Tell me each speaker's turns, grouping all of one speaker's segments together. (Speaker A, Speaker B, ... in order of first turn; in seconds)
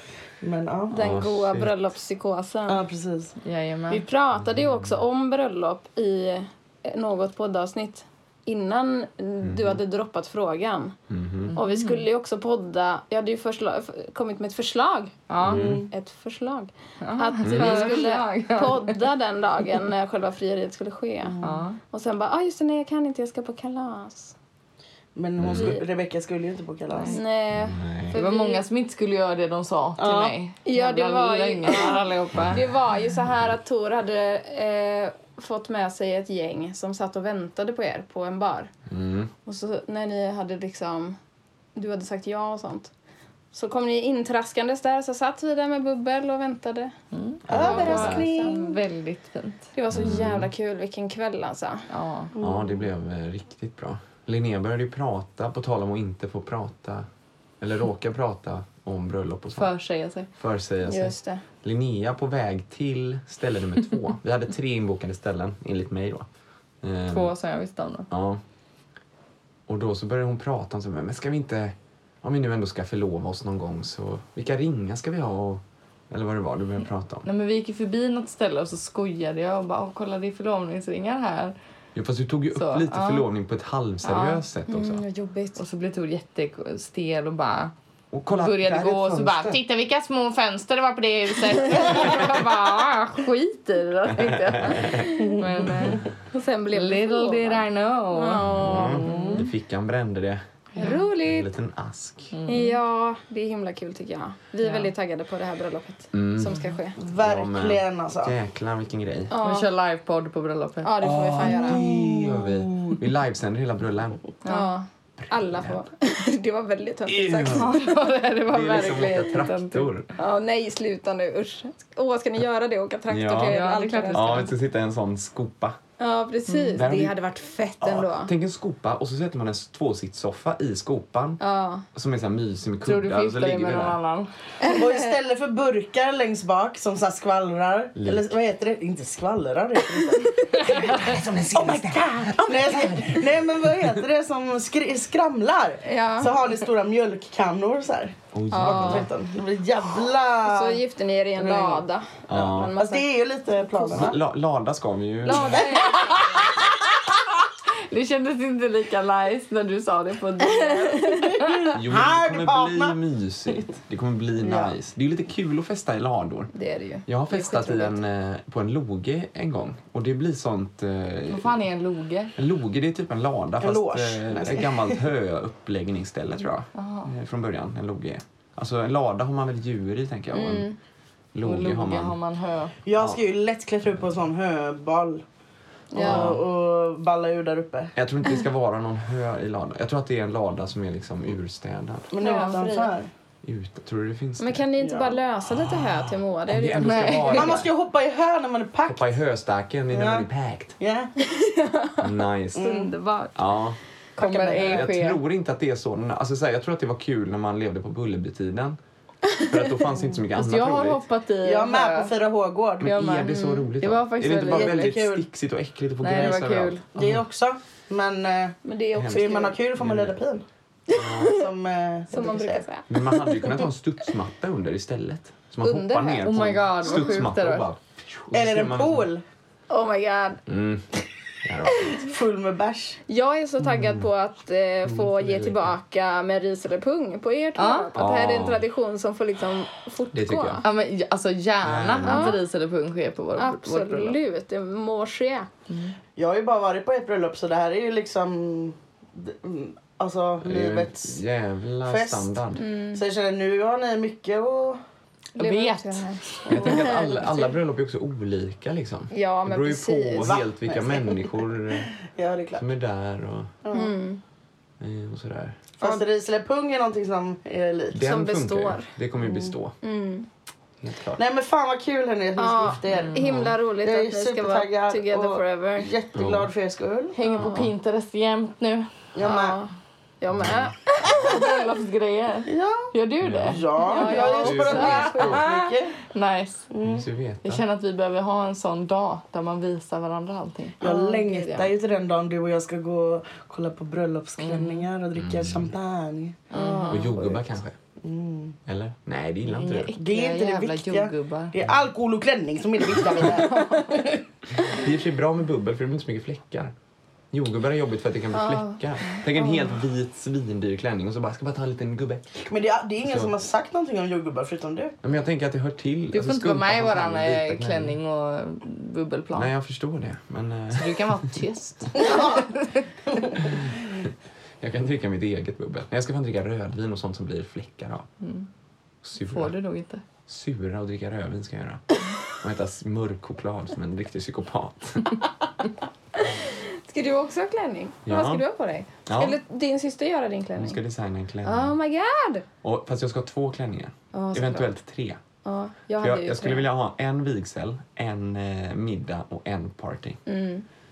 Speaker A: 0.4-1.0, 2.7-3.4, 15.4-15.9, 21.2-21.7, 25.1-27.2, 30.0-30.3, 47.5-48.6, 52.4-52.9, 95.2-96.0, 99.0-99.5, 107.0-108.3, 111.4-113.0, 134.7-150.8, 151.4-151.8, 152.4-154.2, 155.5-155.9, 161.1-163.0, 164.4-164.8, 173.6-175.1, 182.8-185.2, 185.9-187.9, 192.1-193.1, 194.8-195.2, 197.3-199.1, 199.9-200.3, 200.8-201.1, 202.6-202.9, 204.2-204.9, 211.4-213.0, 214.4-215.3, 216.1-218.6, 219.1-220.4, 221.2-222.6, 228.3-229.2, 231.9-233.0, 246.2-251.2, 251.8-252.4, 252.9-254.8, 260.2-262.6, 263.6-263.9, 265.8-268.0, 269.2-269.5, 271.2-277.2, 279.1-279.6, 282.5-282.9, 283.4-286.0, 286.7-287.1, 290.8-296.4, 297.2-297.4, 298.0-298.6, 300.0-304.2, 312.4-315.0, 322.0-322.5, 323.1-323.7
Speaker B: 0.9-2.8, 3.9-10.9, 11.6-15.3, 15.9-21.4, 21.9-24.3, 25.5-25.8, 27.1-28.7, 30.6-32.0, 32.5-38.7, 39.5-41.2, 41.8-42.9, 43.5-46.9, 47.5-48.7, 49.8-51.9, 60.9-61.4, 84.7-85.6, 94.9-95.3, 96.3-99.3, 100.8-101.5, 102.5-107.0, 109.3-109.7, 110.8-111.8, 114.5-117.9, 120.2-124.5, 126.0-128.3, 131.4-131.8, 134.6-135.1, 145.8-146.3, 148.5-149.1, 150.4-153.1, 153.7-154.1, 155.2-156.4, 160.5-161.3, 166.5-168.0, 180.3-180.8, 185.9-186.4, 192.2-192.9, 194.4-197.3, 201.2-203.4, 213.3-213.7, 218.7-219.6, 220.9-221.4, 222.1-223.6, 225.6-227.2, 229.7-230.4, 233.1-240.6, 242.0-242.4, 243.4-245.5, 252.6-253.0, 255.4-257.4, 259.1-260.3, 263.7-264.2, 268.0-268.9, 269.8-270.3, 272.4-275.9, 277.3-277.7, 279.2-281.6, 283.8-285.6, 290.8-291.7, 296.5-297.1, 303.3-304.0, 308.3-308.8, 336.2-340.8, 341.4-342.4, 344.1-344.7, 345.4-346.7, 350.3-350.6
Speaker C: 0.9-1.8, 4.3-5.0, 9.4-9.8, 11.1-11.6, 15.4-15.9, 17.4-18.0, 25.4-25.8, 27.6-28.2, 32.3-32.6, 38.9-39.3, 47.5-48.2, 49.9-50.5, 52.4-57.1, 57.6-59.7, 60.4-66.3, 66.8-67.3, 68.1-68.4, 69.7-77.3, 82.0-85.0, 88.1-89.6, 94.2-95.0, 98.4-102.3, 106.1-106.6, 107.2-109.3, 111.0-114.2, 115.2-115.8, 117.1-117.8, 118.5-120.1, 123.1-125.8, 126.8-127.2, 127.8-131.4, 131.9-134.0, 138.0-138.3, 140.8-143.3, 148.3-149.1, 152.3-152.8, 153.9-155.7, 161.7-166.5, 167.1-171.6, 172.4-180.7, 181.3-182.2, 182.9-183.2, 186.0-186.4, 188.0-192.1, 193.4-194.7, 195.5-197.7, 198.9-200.8, 202.0-202.7, 203.3-203.8, 204.6-208.8, 209.4-211.0, 212.8-217.2, 219.0-220.2, 220.9-221.3, 222.9-229.1, 230.5-230.9, 231.4-231.9, 233.6-234.1, 234.8-235.7, 237.9-238.6, 240.1-240.6, 241.6-242.4, 250.4-252.6, 256.5-261.9, 262.6-263.5, 264.8-265.6, 267.9-269.8, 270.8-271.2, 276.1-276.5, 280.4-280.7, 283.2-283.6, 284.2-285.4, 286.8-287.6, 295.2-295.7, 296.9-297.8, 298.7-299.9, 303.0-303.4, 304.6-306.7, 307.3-312.3, 313.0-313.4, 315.0-318.0, 319.3-321.3, 324.6-328.1, 329.0-329.6, 330.3-335.2, 338.1-338.4, 339.1-339.4, 340.6-341.8, 342.6-345.2, 346.0-350.2
Speaker D: 3.4-4.0, 11.6-12.0, 15.3-15.7, 17.0-19.1, 21.4-21.8, 28.1-32.6, 47.1-49.7, 51.9-52.3, 59.6-60.3, 67.1-68.1, 77.2-81.5, 82.5-83.3, 84.0-84.4, 85.6-87.7, 88.3-96.1, 96.7-99.4, 100.8-101.0, 102.3-102.8, 104.6-104.9, 109.4-110.9, 114.4-114.7, 117.5-119.9, 123.5-124.5, 126.5-126.8, 132.8-134.3, 140.7-141.2, 155.8-156.7, 157.9-161.5, 171.3-172.3, 176.8-177.1, 181.4-182.7, 196.8-197.6, 204.2-205.2, 210.3-212.1, 212.8-215.0, 216.0-216.8, 226.2-227.7, 237.6-237.9, 240.6-244.2, 245.7-245.9, 255.4-256.6, 272.9-273.4, 277.1-278.9, 281.2-285.5, 286.1-286.7, 287.4-290.8, 294.4-294.9, 296.5-297.1, 299.5-301.5, 316.1-319.5, 320.7-322.8, 328.2-328.5, 329.2-330.0